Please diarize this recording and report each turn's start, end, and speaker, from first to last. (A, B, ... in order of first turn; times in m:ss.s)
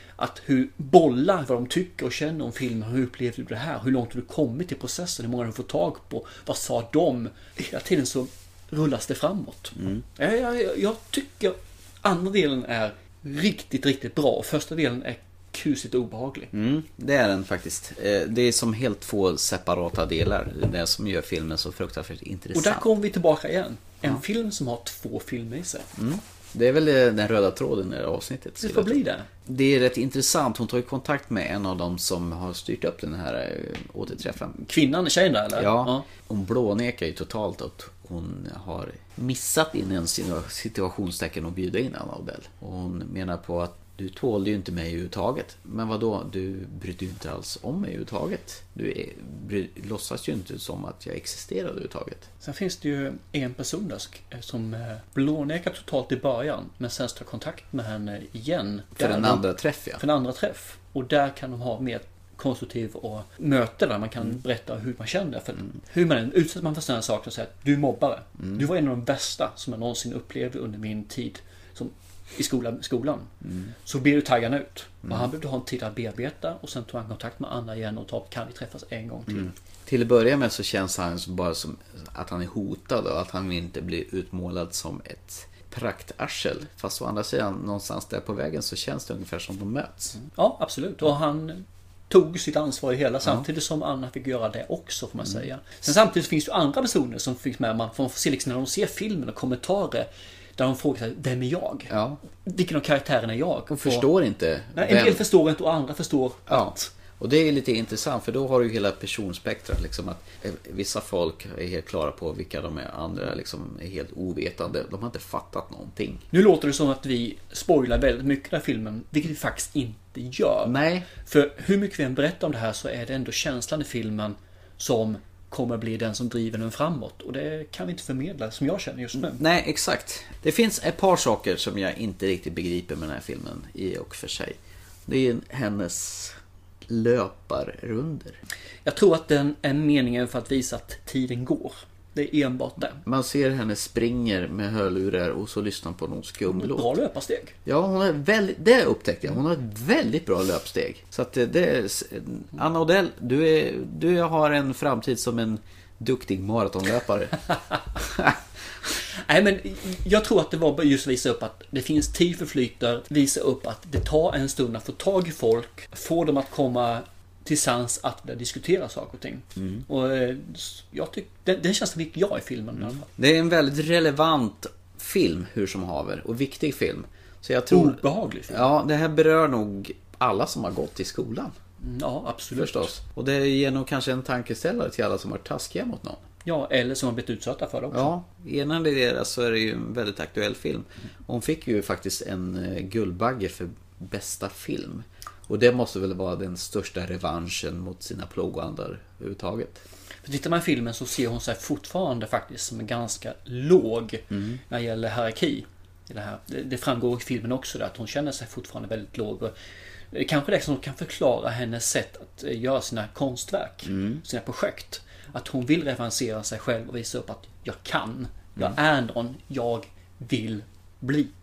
0:00.2-0:16.5 A
0:09.8-0:10.0 B
0:16.5-0:22.9 B
0:22.5-0:25.9 A
0:26.0-0:34.6 B
0:28.6-0:29.3 A
0:34.6-0:36.0 A
0:35.6-0:52.3 B
0:52.4-0:59.5 A
0:59.0-1:00.0 B
1:00.0-1:13.3 A
1:08.4-1:08.6 B
1:13.4-1:13.7 B
1:13.8-1:19.5 A
1:19.3-1:30.2 B
1:30.2-1:44.1 A
1:41.9-1:42.2 B
1:43.7-1:45.2 B
1:44.8-1:46.9 A
1:46.5-1:56.2 B
1:56.3-2:09.4 A
2:00.6-2:01.1 B
2:09.1-2:16.4 B
2:16.9-2:18.4 B
2:18.8-2:23.0 A
2:23.0-2:26.9 B
2:26.5-2:27.5 A
2:27.6-2:37.4 B
2:38.0-2:38.4 B
2:39.3-2:53.0 A
2:49.6-2:49.8 B
2:53.0-3:01.5 B
2:57.7-2:58.6 A
3:01.8-3:02.9 A
3:02.6-3:06.2 B
3:06.4-3:08.1 A
3:07.9-3:19.8 B
3:20.2-3:29.5 A
3:24.3-3:24.6 B
3:30.1-3:41.3 A
3:33.8-3:34.2 B